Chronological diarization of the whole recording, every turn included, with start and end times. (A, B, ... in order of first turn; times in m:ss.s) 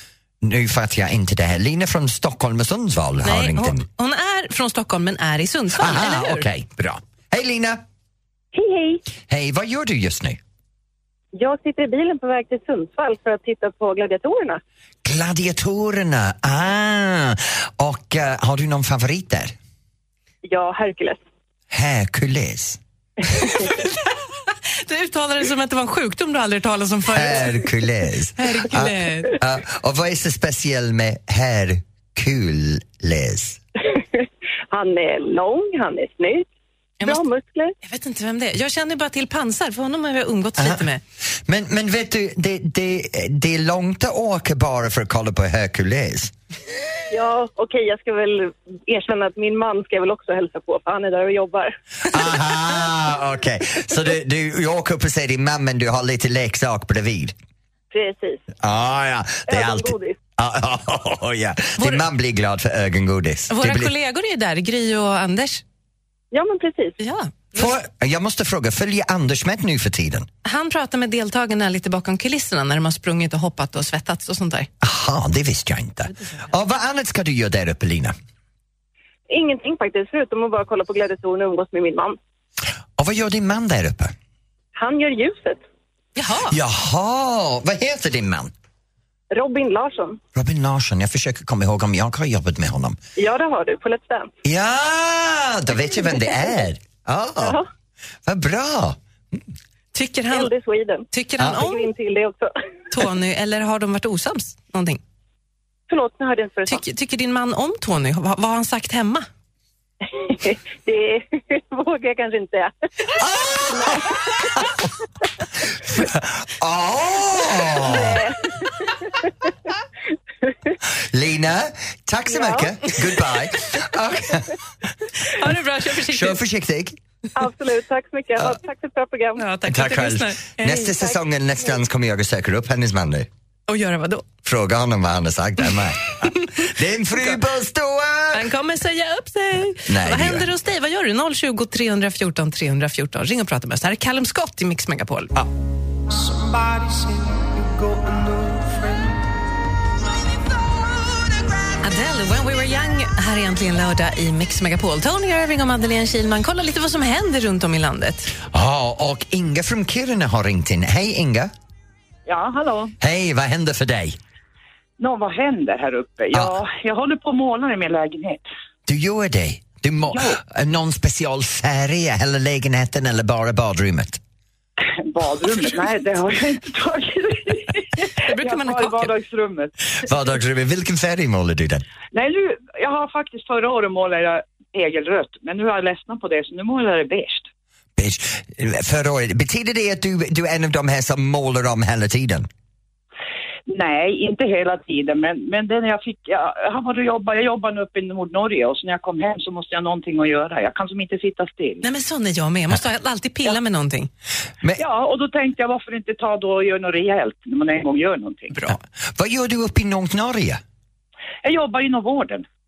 0:00.4-0:03.8 A
0:03.2-0:06.4 B
0:05.7-0:07.8 A
0:08.6-0:09.0 C
0:09.3-0:10.4 A
0:11.3-0:14.6 C
0:15.0-0:19.5 A
0:20.4-0:21.2 C
0:21.7-0:22.8 A
0:23.5-0:23.9 B
0:24.8-0:27.7 B
0:27.1-0:33.6 A
0:28.4-0:29.4 B
0:34.7-0:36.4 C
0:37.0-0:37.7 C
0:37.8-0:41.0 B
0:40.6-0:40.9 A
0:41.4-0:46.3 A
0:47.1-0:51.7 C
0:52.1-0:57.3 A
0:57.9-0:58.4 C
0:58.6-1:03.9 A
0:59.5-1:00.1 C
1:01.8-1:02.0 B
1:03.5-1:05.6 B
1:06.3-1:06.9 C
1:07.0-1:07.7 B
1:07.5-1:10.3 A
1:10.4-1:14.7 B
1:14.8-1:18.1 A
1:19.3-1:22.1 C
1:23.0-1:24.1 A
1:24.8-1:25.6 C
1:26.2-1:26.6 B
1:26.5-1:28.5 A
1:29.3-1:30.2 C
1:30.3-1:33.0 A
1:33.2-1:34.3 C
1:34.4-1:37.6 A
1:38.2-1:39.0 A
1:39.9-1:40.5 B
1:40.4-1:41.0 C
1:41.1-1:41.9 B
1:41.8-1:42.4 C
1:42.9-1:45.0 B
1:45.9-1:46.8 C
1:46.7-1:49.3 B
1:50.9-1:52.7 C
1:53.2-1:54.4 A
1:55.8-1:58.2 A
1:57.9-1:58.3 C
2:01.0-2:04.6 A
2:05.2-2:06.4 B
2:06.1-2:07.0 A
2:07.4-2:09.3 C
2:09.4-2:11.0 B
2:09.6-2:13.3 A
2:13.7-2:14.2 B
2:14.4-2:18.5 A
2:18.3-2:25.4 B
2:19.9-2:20.5 A
2:26.1-2:29.1 D
2:31.8-2:38.3 B
2:38.4-2:41.5 A
2:42.2-2:42.9 E
2:43.0-2:44.2 A
2:45.0-2:48.4 E
2:48.9-2:54.2 A
2:50.1-2:50.4 E
2:54.8-2:59.7 E
2:58.2-2:59.1 B
3:00.0-3:01.8 A
3:02.1-3:07.5 E
3:08.0-3:12.5 A
3:13.7-3:21.9 E
3:21.8-3:24.1 B
3:24.8-3:28.5 E
3:28.7-3:30.6 A
3:31.4-3:32.4 E